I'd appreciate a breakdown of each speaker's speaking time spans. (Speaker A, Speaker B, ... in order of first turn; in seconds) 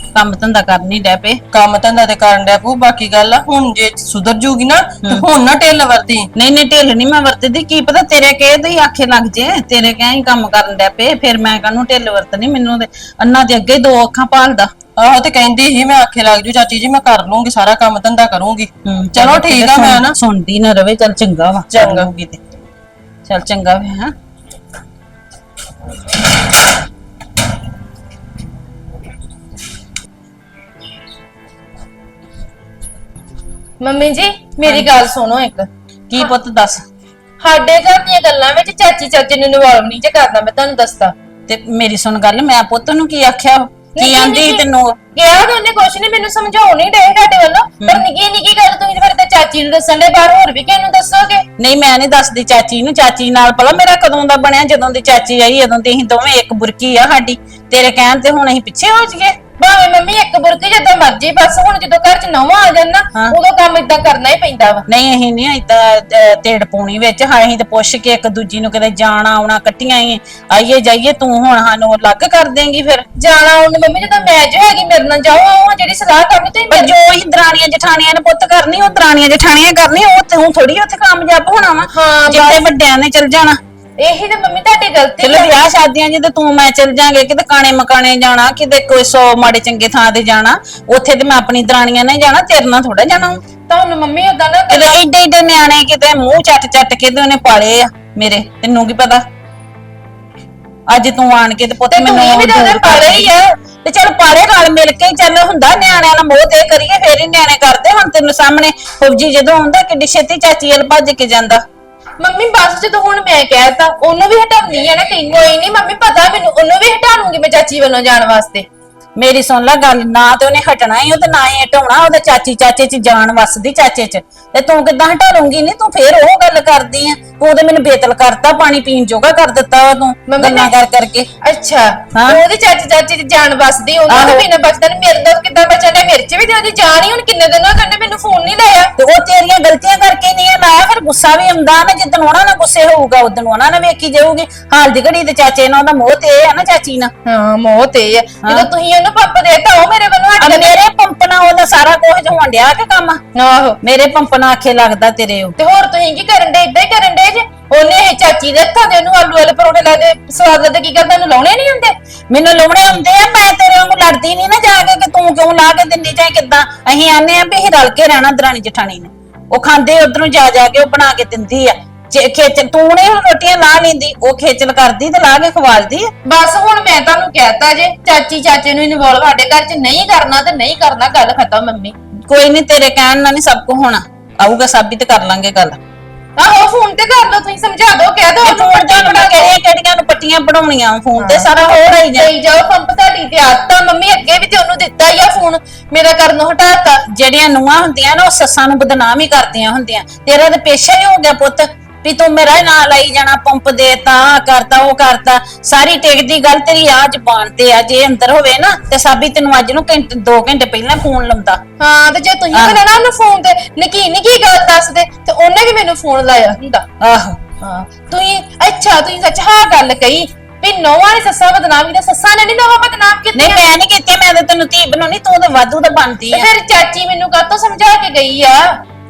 Speaker A: 0.1-1.4, 6.3-14.7, 18.9-22.4, 23.3-24.1, 34.6-34.9, 36.1-36.9, 41.5-45.0, 51.6-59.4, 64.9-73.1, 76.7-83.6, 85.2-93.4, 94.7-99.2, 100.9-111.6, 119.2-131.3, 132.1-132.4, 134.1-134.4, 139.0-147.1, 150.4-153.2, 153.8-155.6, 162.3-176.1, 182.3-185.8, 188.4-192.3, 197.0-211.6, 217.0-217.4, 223.3-226.5
Speaker B: 1.5-6.3, 15.0-20.2, 21.7-22.1
Speaker C: 33.8-35.7, 37.4-41.1, 44.0-51.5, 59.6-64.9, 73.2-76.9, 81.9-82.7, 84.0-85.6, 93.7-95.0, 101.9-103.3, 112.2-118.7, 130.3-130.8, 131.4-138.9, 147.3-150.8, 153.3-153.8, 155.6-161.9, 176.2-181.9, 186.4-189.6, 191.2-191.5, 192.1-197.0, 211.8-216.8, 217.6-223.7, 226.3-228.8